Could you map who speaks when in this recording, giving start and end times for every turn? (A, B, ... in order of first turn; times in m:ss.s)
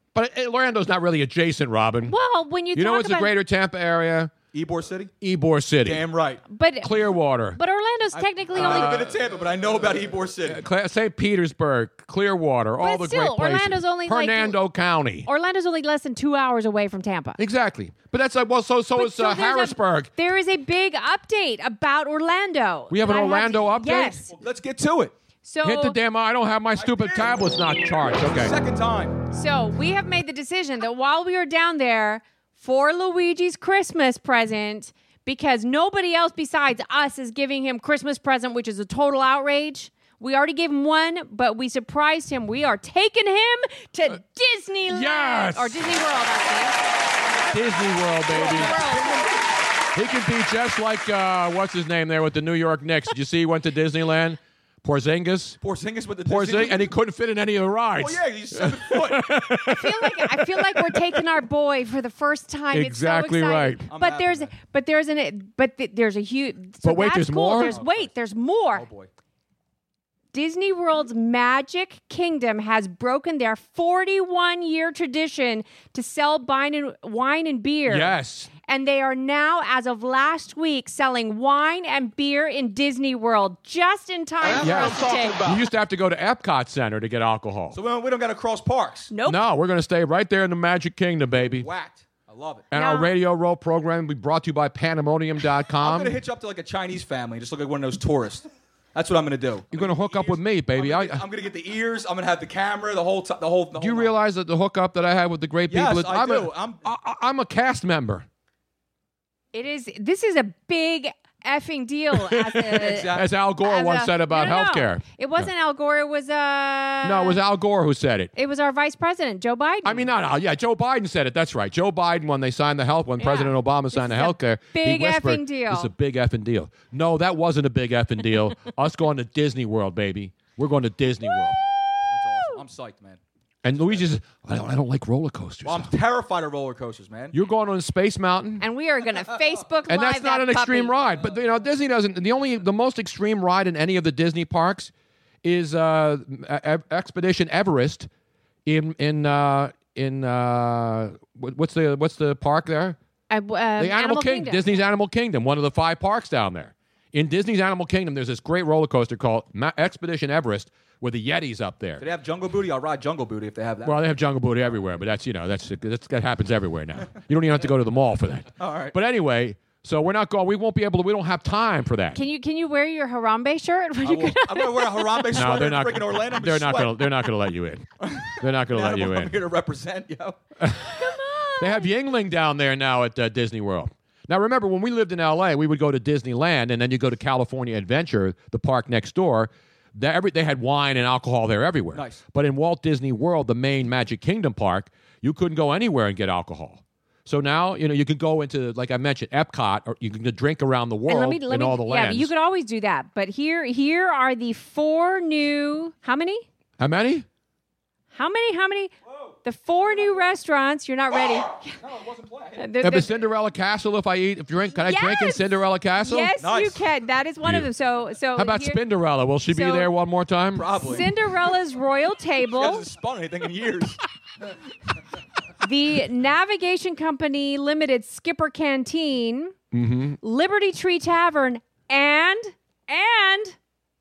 0:00.1-0:02.2 A
0:02.1-0:03.3 B
0:02.7-0:04.3 A
0:04.5-0:05.1 C
0:05.2-0:06.0 A
0:05.8-0:06.4 C
0:06.5-0:09.1 B
0:06.8-0:07.6 A
0:08.2-0:10.6 C
0:08.6-0:09.2 A
0:10.5-0:15.3 A
0:12.8-0:14.6 B
0:15.2-0:17.4 B
0:17.4-0:20.1 A
0:19.0-0:24.3 B
0:22.9-0:24.2 A
0:24.3-0:25.1 C
0:25.4-0:26.0 B
0:25.6-0:28.6 A
0:26.8-0:29.2 C
0:29.3-0:46.8 B
0:44.9-0:45.9 A
0:47.5-0:48.8 A
0:48.3-0:49.3 C
0:48.3-0:49.2 B
0:50.0-0:55.6 A
0:55.6-0:56.8 C
0:56.3-1:01.0 A
0:58.0-0:59.4 C
0:59.7-1:08.9 B
1:02.7-1:03.9 A
1:03.9-1:04.6 C
1:06.8-1:07.8 A
1:07.6-1:08.2 C
1:08.7-1:09.1 C
1:10.3-1:25.5 B
1:17.9-1:18.5 A
1:24.4-1:25.6 C
1:24.6-1:27.8 A
1:27.7-1:29.1 C
1:29.1-1:29.4 B
1:29.3-1:31.7 A
1:31.4-1:32.7 C
1:32.7-1:36.2 A
1:32.7-1:33.1 B
1:35.8-1:44.1 C
1:39.7-1:41.2 A
1:43.8-1:48.3 A
1:45.7-1:46.8 C
1:49.5-1:57.4 B
1:52.2-1:55.5 A
1:52.7-1:53.3 C
1:57.0-1:58.3 A
1:58.4-2:00.1 B
1:59.8-2:11.6 A
2:03.2-2:05.9 B
2:12.1-2:14.0 C
2:13.6-2:15.9 A
2:15.6-2:17.4 C
2:17.3-2:18.6 A
2:18.6-2:21.0 B
2:19.9-2:24.9 A
2:25.4-2:28.1 A
2:28.7-2:33.0 A
2:33.3-2:34.8 B
2:33.8-2:42.1 A
2:42.0-2:44.0 C
2:43.8-2:52.2 A
2:48.6-2:49.0 C
2:52.1-2:55.4 B
2:54.0-2:57.0 C
2:55.4-2:57.9 A
2:58.0-3:00.4 C
2:58.4-2:59.4 A
3:00.6-3:01.0 A
3:01.0-3:01.8 B
3:01.6-3:22.3 A
3:11.9-3:12.2 C
3:21.1-3:26.4 B
3:26.8-3:27.3 A
3:28.1-3:28.9 B
3:29.1-3:29.4 C
3:29.4-3:31.7 B
3:31.8-3:32.7 C
3:32.6-3:33.1 B
3:32.8-3:36.3 A
3:34.7-3:38.8 B
3:36.4-3:36.8 C
3:38.4-3:40.9 A
3:39.5-3:39.9 B
3:40.6-3:41.1 C
3:40.8-3:42.8 B
3:42.5-3:44.0 C
3:45.6-3:49.6 B
3:49.7-3:50.2 A
3:50.2-3:53.6 B